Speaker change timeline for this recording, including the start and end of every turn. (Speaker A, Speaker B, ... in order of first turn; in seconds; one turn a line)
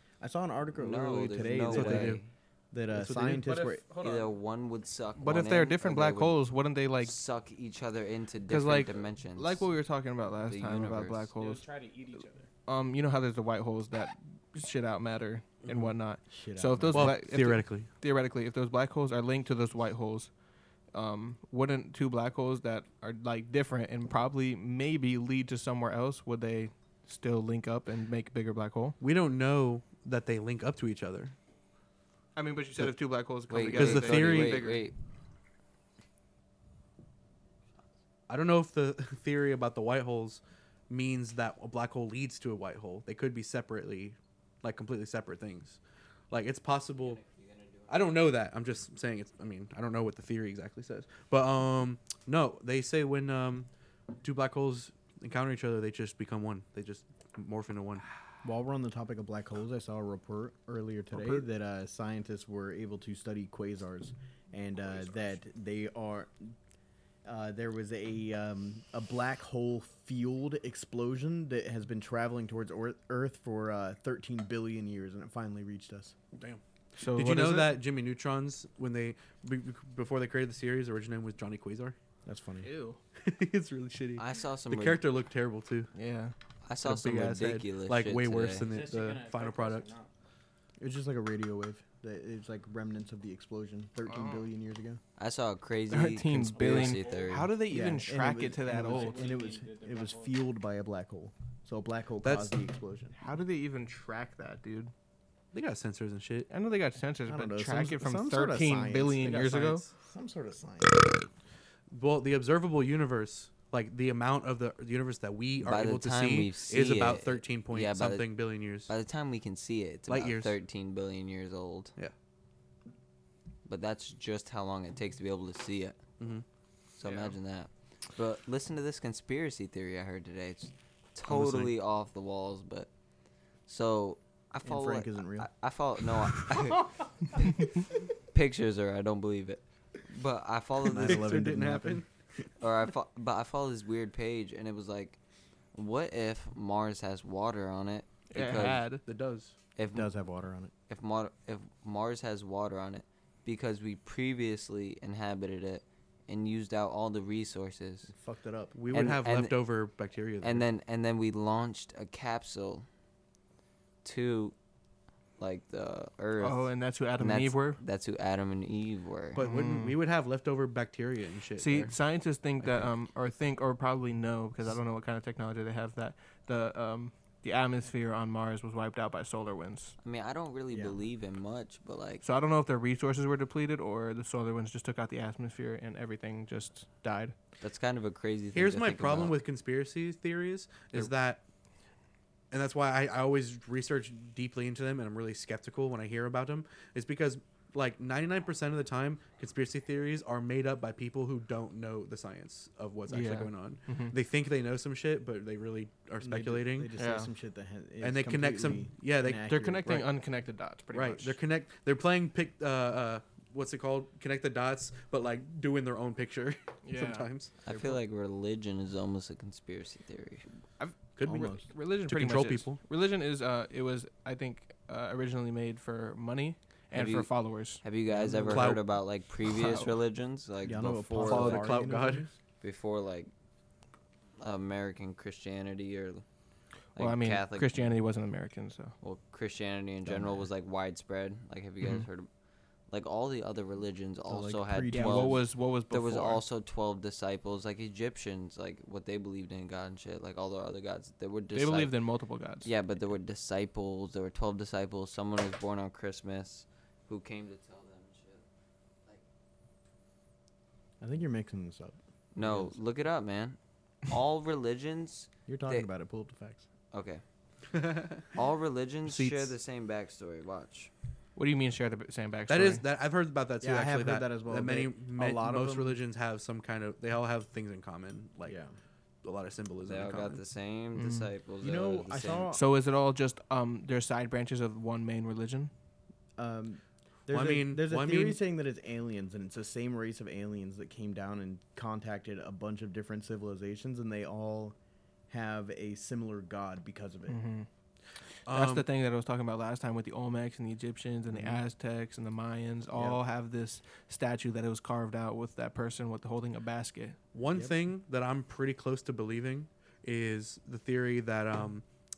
Speaker A: 0.2-2.2
Speaker B: 0.8-2.3
Speaker C: 1.7-2.2
Speaker A: 2.7-3.8
Speaker C: 2.9-3.4
Speaker D: 3.4-4.3
Speaker B: 4.0-6.4
Speaker E: 5.2-7.1
Speaker B: 7.0-9.7
Speaker E: 8.5-11.6
Speaker B: 10.5-11.3
Speaker D: 11.3-12.5
Speaker E: 12.7-20.3
Speaker A: 16.3-17.1
Speaker C: 16.9-17.9
Speaker E: 20.9-29.0
Speaker C: 29.0-31.3
Speaker E: 32.4-34.8
Speaker B: 33.5-35.0
Speaker C: 33.7-34.8
Speaker C: 38.3-47.2
Speaker B: 47.0-48.1
Speaker C: 47.9-53.7
Speaker C: 54.2-58.0
Speaker A: 58.4-66.5
Speaker C: 61.1-61.4
Speaker A: 67.2-76.1
Speaker C: 76.3-76.6
Speaker E: 77.0-77.8
Speaker C: 77.1-82.0
Speaker A: 82.2-82.7
Speaker E: 82.6-83.0
Speaker C: 83.2-85.9
Speaker B: 84.2-85.0
Speaker E: 85.9-86.3
Speaker B: 86.6-88.7
Speaker C: 86.8-89.9
Speaker D: 88.5-90.1
Speaker A: 90.8-95.0
Speaker E: 94.1-94.5
Speaker B: 95.2-97.5
Speaker E: 95.9-99.2
Speaker D: 96.7-97.3
Speaker A: 97.7-103.2
Speaker D: 98.7-100.4
Speaker C: 102.2-102.5
Speaker E: 103.2-104.9
Speaker C: 105.5-106.5
Speaker E: 106.5-109.8
Speaker A: 107.3-111.0
Speaker C: 109.2-109.9
Speaker C: 111.9-118.9
Speaker B: 115.6-121.9
Speaker C: 120.1-120.5
Speaker B: 123.6-126.0
Speaker C: 126.2-126.4
Speaker B: 127.0-132.9
Speaker C: 131.2-131.7
Speaker B: 133.7-137.7
Speaker A: 134.6-135.5
Speaker B: 138.3-141.3
Speaker A: 140.9-142.0
Speaker C: 140.9-142.1
Speaker B: 142.6-145.2
Speaker B: 145.7-148.9
Speaker E: 148.3-149.0
Speaker C: 149.1-149.6
Speaker B: 149.8-150.1
Speaker A: 149.9-150.7
Speaker B: 150.9-158.1
Speaker A: 158.1-158.7
Speaker C: 158.7-160.7
Speaker B: 158.9-159.6
Speaker B: 160.4-162.9
Speaker B: 164.0-164.5
Speaker B: 165.4-169.4
Speaker E: 166.4-167.8
Speaker C: 169.3-171.9
Speaker E: 169.4-170.0
Speaker E: 171.6-179.9
Speaker C: 172.6-172.9
Speaker B: 180.0-182.2
Speaker A: 180.7-180.9
Speaker E: 182.2-187.3
Speaker B: 187.6-189.4
Speaker C: 188.5-191.4
Speaker C: 192.5-206.9
Speaker E: 203.1-204.1
Speaker A: 206.2-210.1
Speaker E: 206.9-207.3
Speaker C: 208.0-210.0
Speaker E: 209.4-211.4
Speaker C: 210.9-217.5
Speaker E: 216.8-217.3
Speaker B: 217.6-220.4
Speaker A: 217.7-218.0
Speaker E: 220.8-227.8
Speaker C: 221.2-221.5
Speaker A: 221.2-221.7
Speaker C: 222.1-222.8
Speaker B: 226.9-227.3
Speaker B: 227.8-231.8
Speaker A: 228.1-228.6
Speaker C: 228.5-228.8
Speaker E: 229.4-229.9
Speaker A: 230.6-232.3
Speaker C: 231.2-232.3
Speaker B: 232.6-233.3
Speaker B: 234.4-236.2
Speaker B: 236.9-237.8
Speaker E: 236.9-238.9
Speaker B: 239.0-242.3
Speaker A: 240.1-240.4
Speaker B: 242.9-251.9
Speaker A: 244.3-245.4
Speaker E: 244.9-246.4
Speaker E: 251.5-252.7
Speaker B: 252.6-258.4
Speaker A: 261.0-262.7
Speaker B: 262.3-265.9
Speaker A: 265.5-266.6
Speaker B: 266.9-267.2
Speaker C: 267.7-268.3
Speaker B: 268.3-270.9
Speaker C: 269.0-269.5
Speaker E: 271.4-272.8
Speaker C: 272.5-278.6
Speaker A: 273.6-276.0
Speaker A: 278.4-278.7
Speaker C: 279.2-280.4
Speaker B: 279.8-282.6
Speaker E: 280.9-281.3
Speaker A: 281.6-282.6
Speaker E: 282.5-285.7
Speaker A: 286.4-294.8
Speaker C: 287.3-288.4
Speaker A: 295.3-297.4
Speaker E: 297.3-297.7
Speaker C: 298.4-298.8
Speaker E: 298.5-307.2
Speaker A: 301.3-301.6
Speaker A: 302.9-303.2
Speaker C: 307.3-311.8